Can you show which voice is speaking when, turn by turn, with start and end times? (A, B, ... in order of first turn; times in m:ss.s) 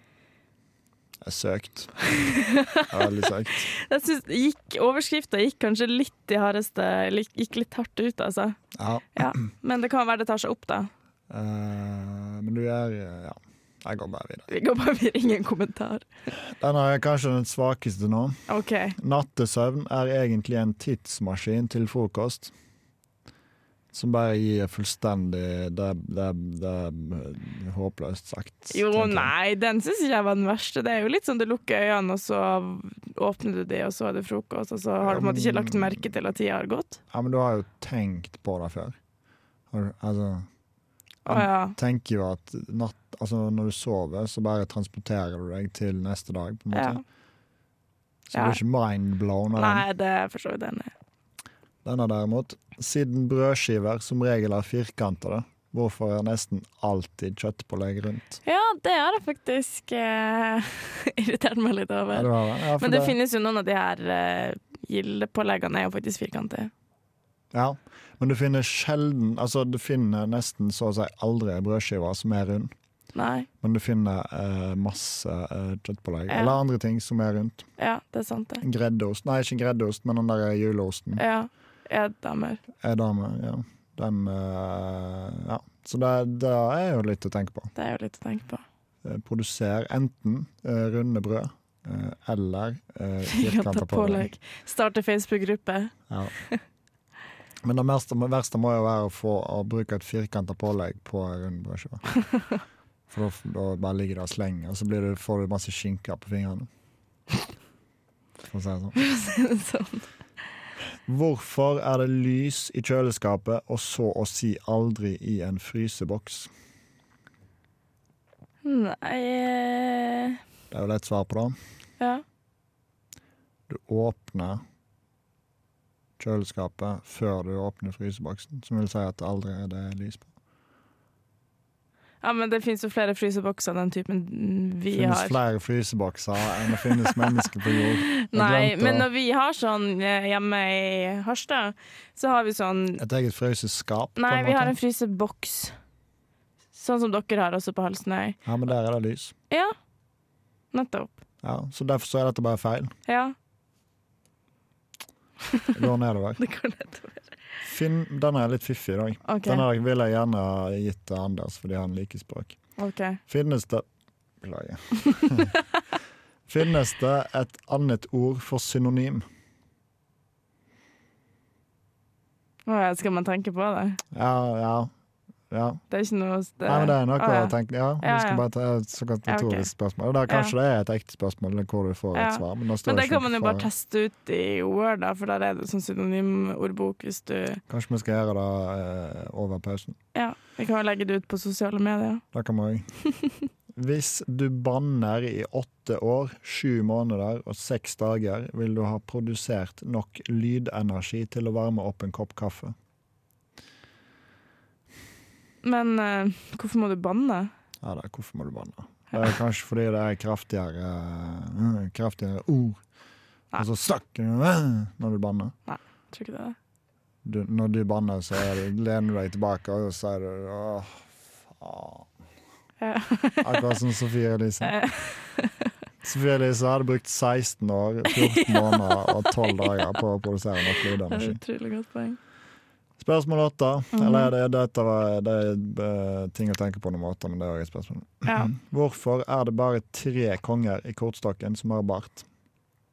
0:01.2-0:01.9 A
0:02.2-0:03.0 B
0:02.9-0:03.7 A
0:03.7-0:08.6 B
0:08.7-0:09.4 A
0:09.2-0:10.9 B
0:11.3-0:14.5 A
0:14.5-0:16.0 B
0:16.5-0:18.4 A
0:18.5-0:19.0 B
0:18.9-0:22.5 A
0:23.9-0:29.3 A
0:28.7-0:37.0 B
0:35.0-0:36.1 A
0:37.1-0:39.0 A
0:39.7-0:40.5 A
0:41.2-0:41.8 B
0:41.2-0:47.0 A
0:46.7-0:47.0 B
0:48.3-0:49.8 A
0:48.3-0:48.6 B
0:49.6-0:50.9 B
0:51.8-0:58.4 A
0:58.4-1:06.7 B
1:02.1-1:03.2 A
1:07.5-1:12.7 A
1:13.1-1:13.5 B
1:13.6-1:17.7 A
1:16.3-1:16.6 B
1:17.8-1:18.6 B
1:18.6-1:21.2 A
1:21.2-1:22.6 B
1:22.8-1:27.7 A
1:27.7-1:28.6 B
1:29.0-1:34.3 A
1:33.3-1:36.6 B
1:37.6-1:42.0 A
1:43.1-1:46.7 A
1:48.5-1:49.0 A
1:49.0-1:50.1 B
1:51.0-1:56.5 A
1:58.6-2:00.4 B
2:00.7-2:01.6 A
2:03.7-2:04.6 A
2:06.2-2:10.3 A
2:12.2-2:15.4 B
2:14.9-2:19.1 A
2:16.8-2:17.2 B
2:18.2-2:23.0 B
2:23.0-2:24.8 A
2:24.2-2:25.7 B
2:26.7-2:28.4 B
2:28.4-2:29.3 A
2:30.7-2:31.1 B
2:31.4-2:32.9 A
2:33.1-2:33.3 B
2:35.7-2:36.4 A
2:36.4-2:37.3 B
2:37.6-2:42.6 A
2:39.3-2:39.6 B
2:42.8-2:43.2 B
2:43.3-2:43.8 A
2:44.4-2:45.5 A
2:46.5-2:49.2 A
2:52.6-2:54.0 B
2:54.1-2:54.9 A
2:55.5-2:55.8 A
2:55.9-2:58.4 B
2:56.6-3:03.7 A
2:59.3-2:59.7 B
3:00.3-3:00.5 B
3:02.1-3:07.6 B
3:07.7-3:10.0 A
3:10.1-3:12.2 B
3:12.3-3:12.9 A
3:13.7-3:22.7 A
3:25.6-3:27.5 B
3:27.8-3:32.8 A
3:33.6-3:35.5 A
3:35.7-3:36.6 B
3:37.2-3:42.1 A
3:42.8-3:43.6 B
3:43.4-3:44.8 A
3:44.6-3:45.6 B
3:46.0-3:51.4 A
3:48.2-3:48.8 B
3:51.1-3:52.2 B
3:53.0-4:02.2 A
3:53.9-3:54.3 B
3:58.2-3:58.5 B